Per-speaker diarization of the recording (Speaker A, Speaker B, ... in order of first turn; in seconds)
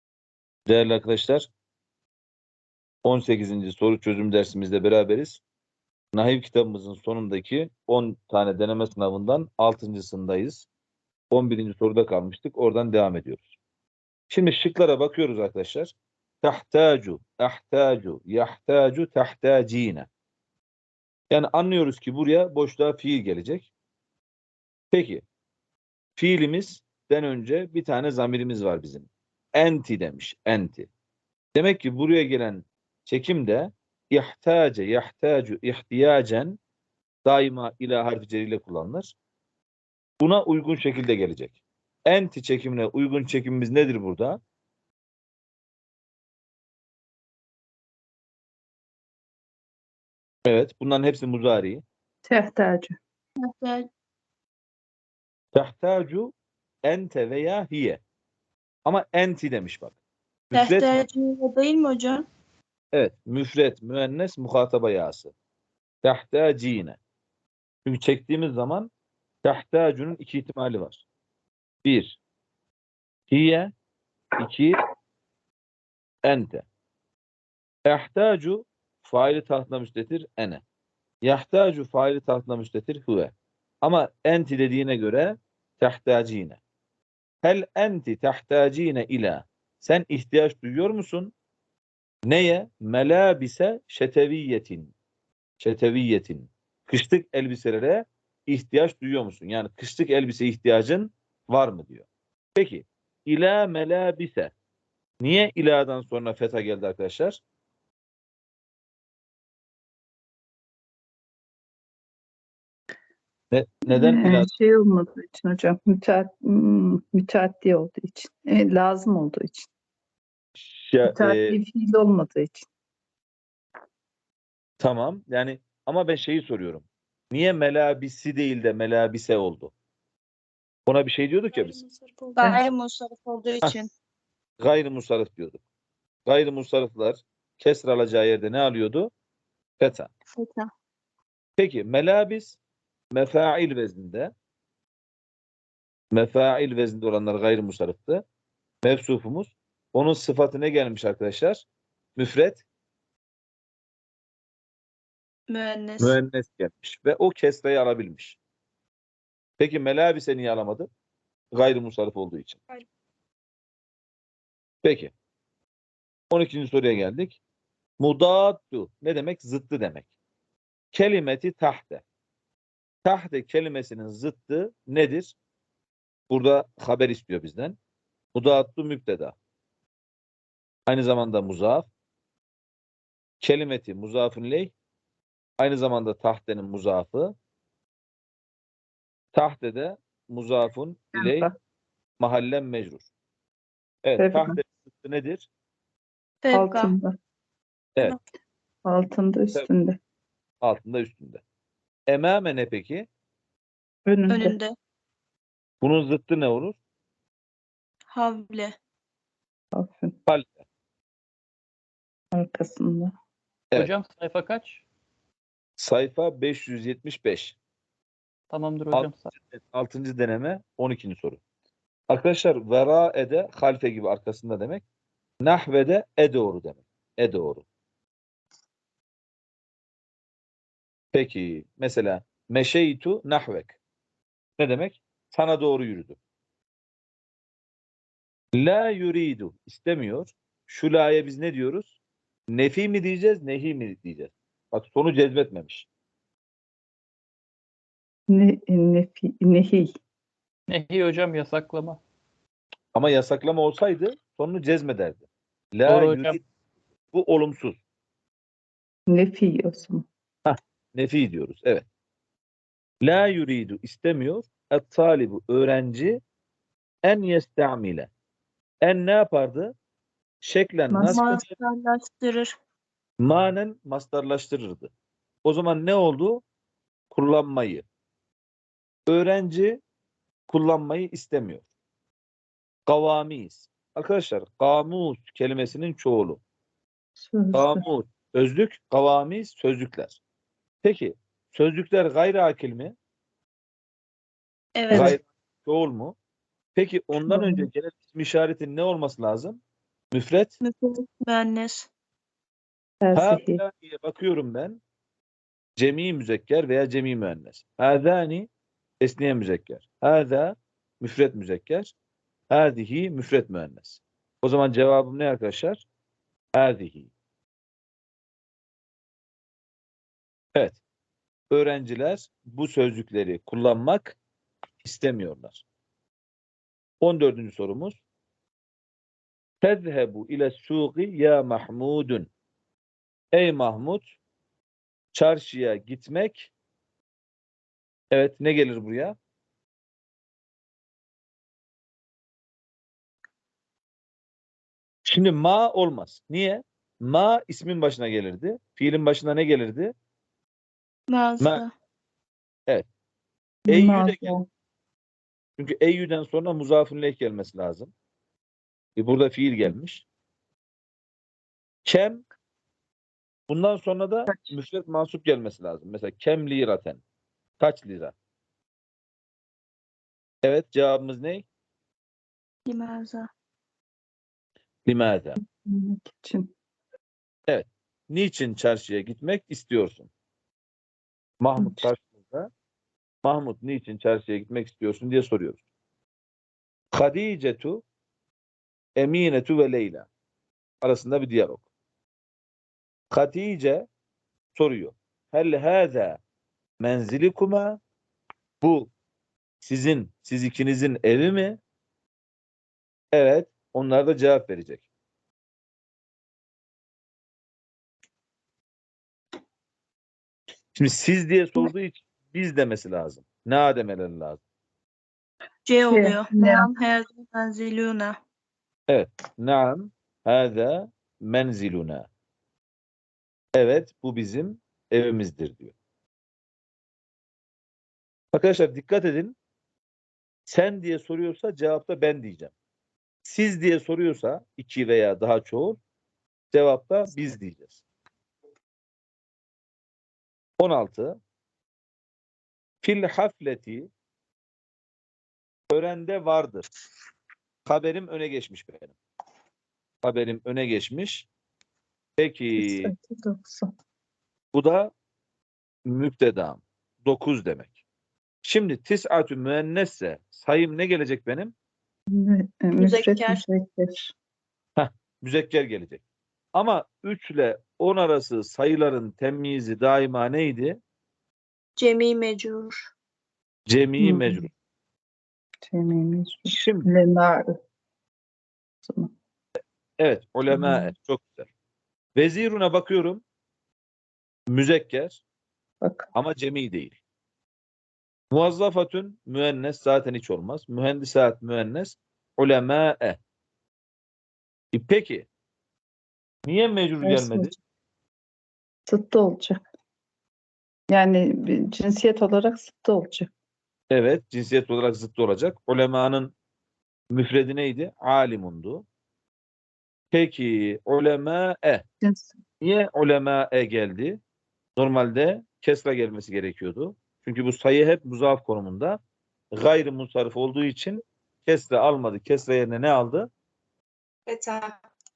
Speaker A: 0.7-1.5, 3.0-5.4, 6.1-10.7, 11.3-13.6, 14.3-20.1, 21.3-23.7, 24.9-25.2, 26.2-30.9, 31.6-36.6, 37.3-39.1, 40.2-44.4, 50.5-51.8, 55.5-56.3, 56.9-58.0, 58.9-60.0, 60.5-61.0, 62.9-65.3, 66.0-67.0, 67.8-68.9, 69.4-71.0, 71.8-72.2, 73.3-73.7, 74.4-74.8, 76.2-76.7, 77.9-80.6, 81.2-86.6, 87.4-91.3, 92.3-94.9, 95.6-104.5, 105.2-107.4, 113.5-114.5, 120.6-121.6, 124.8-129.7, 130.9-131.8, 134.6-135.6, 136.3-139.1, 139.8-140.1, 141.6-142.6, 143.1-144.3, 146.1-148.2, 148.8-151.7, 152.2-152.6, 156.0-158.4, 159.6-160.9, 161.5-162.6, 164.8-165.1, 166.3-167.4, 168.0-170.1, 170.9-172.0, 173.1-175.4, 176.3-177.8, 178.3-179.3, 180.9-181.9, 183.4-184.7, 185.6-187.3, 189.3-191.5, 192.2-193.1, 194.0-195.5, 200.6-201.4, 202.1-203.1, 205.8-206.8, 210.3-210.6, 215.8-217.6, 218.9-221.4, 222.1-224.8, 225.4-227.7, 231.1-233.8, 234.6-236.2, 238.6-241.9, 242.5-245.9, 252.9-256.4, 257.1-257.8, 260.4-261.9, 263.0-266.2, 267.1-268.1, 268.8-269.7, 270.4-271.5, 273.2-274.9, 275.4-276.4, 277.1-277.9, 279.1-279.8, 280.5-281.6, 282.9-286.4, 287.5-290.2, 290.8-292.9, 294.9-296.2, 296.8-299.6, 300.1-300.5, 303.1-304.8, 305.8-308.5, 309.0-311.9, 312.5-315.9, 316.6-317.1, 320.6-320.8, 321.5-324.2, 324.8-325.6, 327.0-328.0, 329.6-332.3, 333.3-334.1, 335.1-336.5, 338.1-339.2, 345.1-349.9, 353.7-354.4, 355.6-357.9, 359.0-360.1, 361.9-362.2, 363.5-367.0, 367.6-368.1, 370.4-371.5, 374.9-375.4, 377.5-380.1, 381.4-382.5, 383.2-385.6, 386.9-387.8, 389.0-390.1, 390.8-391.6, 393.1-393.9, 394.6-396.2, 396.8-397.8, 398.6-398.9, 399.6-401.6, 403.1-404.9, 410.8-414.4, 418.9-422.1, 423.6-425.7, 428.3-429.4, 430.5-432.5, 433.2-435.8, 436.5-437.8, 440.6-441.2, 442.8-443.9, 445.7-446.7, 447.7-449.0, 450.0-451.3, 452.2-452.9, 454.5-454.9, 455.9-457.8, 458.4-461.5, 464.8-466.0, 466.6-470.8, 473.7-474.5, 476.5-476.9, 480.0-481.5, 482.2-483.2, 484.5-485.2, 486.1-487.0, 488.3-493.2, 494.7-495.3, 496.5-497.5, 503.9-506.3, 507.1-508.9, 510.1-511.8, 512.6-514.2, 514.8-519.0, 519.5-523.3
Speaker B: 52.3-53.0, 113.9-119.7, 121.0-122.7, 132.4-132.7, 191.2-191.5, 194.2-194.6, 196.5-197.2, 198.8-200.0, 204.1-204.6, 209.7-210.2, 212.3-213.1, 248.3-249.9, 259.1-260.1, 270.9-271.4, 287.2-287.9, 297.2-297.7, 303.0-303.6, 353.7-354.5, 364.3-364.5, 375.4-376.5, 381.6-381.9, 415.9-416.7, 452.6-453.7, 462.1-464.1, 474.0-474.5, 475.6-477.5, 478.8-479.1, 480.5-480.9, 485.8-486.1, 497.0-497.5, 498.9-499.6, 500.9-503.3, 512.0-512.4
Speaker C: 53.4-53.9, 60.5-62.3, 131.9-133.9, 140.4-140.7, 155.5-156.2, 196.4-196.9, 204.3-204.7, 208.1-208.8, 271.0-272.5, 294.8-295.2, 300.6-301.9, 351.1-351.7, 372.7-373.3, 415.7-418.2, 462.8-463.4, 471.8-472.9, 524.3-524.7
Speaker D: 213.8-214.8, 218.5-219.3, 250.7-252.0, 255.9-256.4